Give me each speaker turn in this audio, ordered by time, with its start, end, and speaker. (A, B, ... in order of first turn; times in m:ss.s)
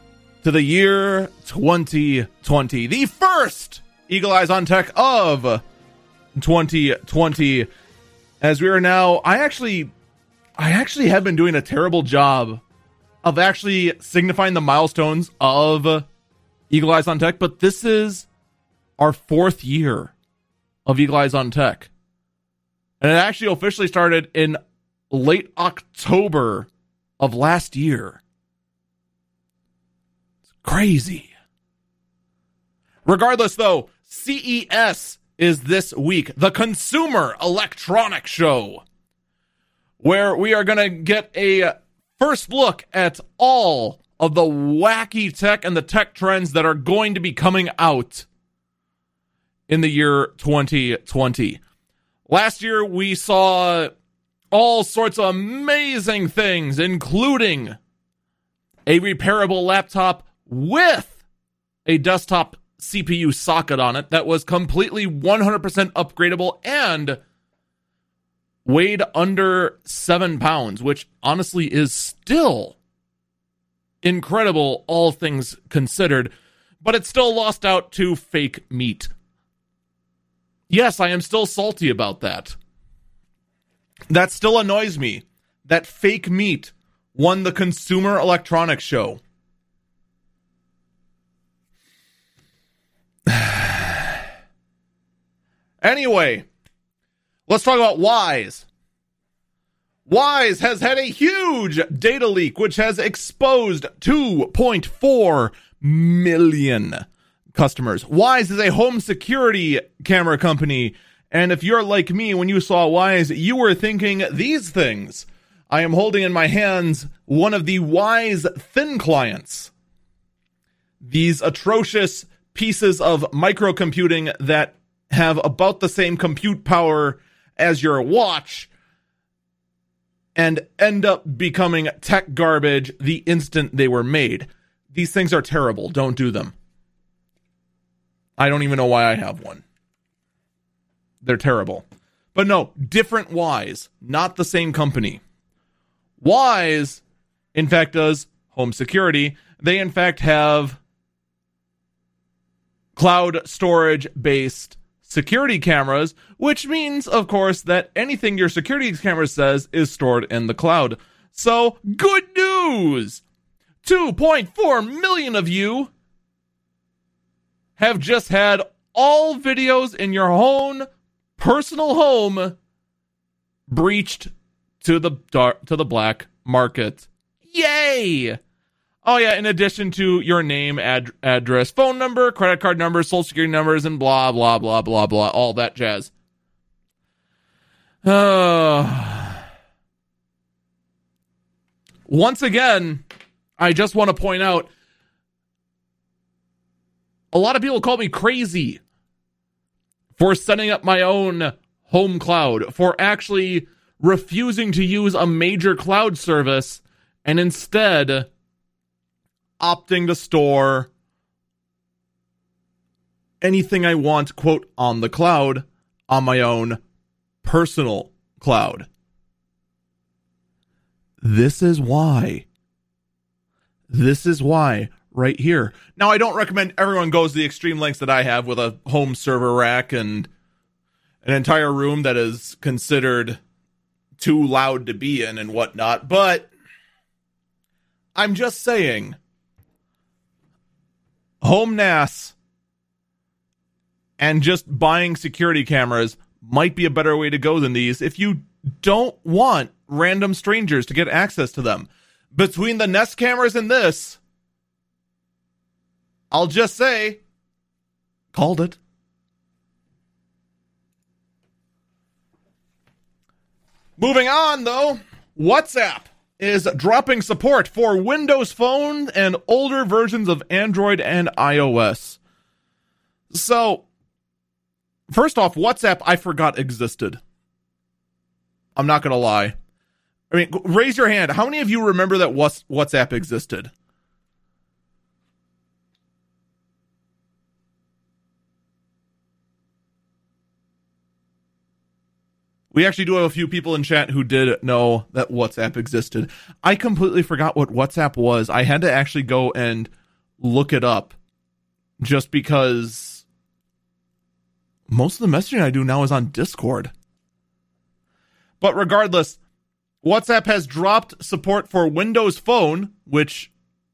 0:00.4-0:05.6 A
0:06.4-0:07.7 A
0:08.4-0:09.9 A
0:10.6-0:12.6 A
0:13.2-0:16.0 A
0:16.7-0:18.3 A
0:19.0-0:20.1 A
0:20.9-0:21.9 A
0:23.0-0:24.6 A
0:25.1-0:28.2 A
0:30.6-0:31.3 A
0:33.0-0:38.8 A
0:40.0-0:48.3 A
0:49.7-0:51.6 A
0:52.3-0:53.9 A
0:54.5-0:57.8 A
0:58.9-1:01.2 A
1:01.8-1:07.2 A
1:08.6-1:12.8 A
1:14.0-1:16.3 A
1:16.8-1:19.1 A
1:20.7-1:22.6 A
1:24.1-1:29.2 A
1:33.3-1:34.2 A
1:35.8-1:36.5 A
1:37.5-1:38.7 A
1:40.1-1:59.7 A
2:01.0-2:08.7 A
2:10.4-2:16.5 A
2:18.4-2:19.6 A
2:21.2-2:25.2 A
2:26.2-2:27.0 A
2:27.5-2:30.8 A
2:33.0-2:43.2 A
2:43.8-2:45.9 A
2:47.8-2:52.5 A
2:53.7-2:54.3 A
2:54.8-2:58.4 A
2:59.0-3:06.1 A
3:08.0-3:09.4 A
3:12.1-3:13.0 A
3:13.6-3:14.7 A
3:17.3-3:18.8 A
3:20.2-3:28.3 A
3:29.6-3:30.9 A
3:33.4-3:36.8 A
3:37.4-3:38.9 A
3:41.2-3:42.5 A
3:43.9-3:50.3 A
3:51.2-3:53.4 A
3:54.2-3:56.5 A
3:58.2-3:59.2 A
4:01.4-4:02.3 A
4:04.2-4:14.2 A
4:16.3-4:17.2 A
4:18.3-4:18.8 A
4:24.0-4:32.2 A
4:33.3-4:33.9 A
4:35.1-4:37.2 A
4:38.8-4:39.5 A
4:40.3-4:43.7 A
4:52.7-5:01.1 A
5:02.0-5:03.2 A
5:04.9-5:06.9 A
5:08.6-5:09.4 A
5:10.0-5:13.5 A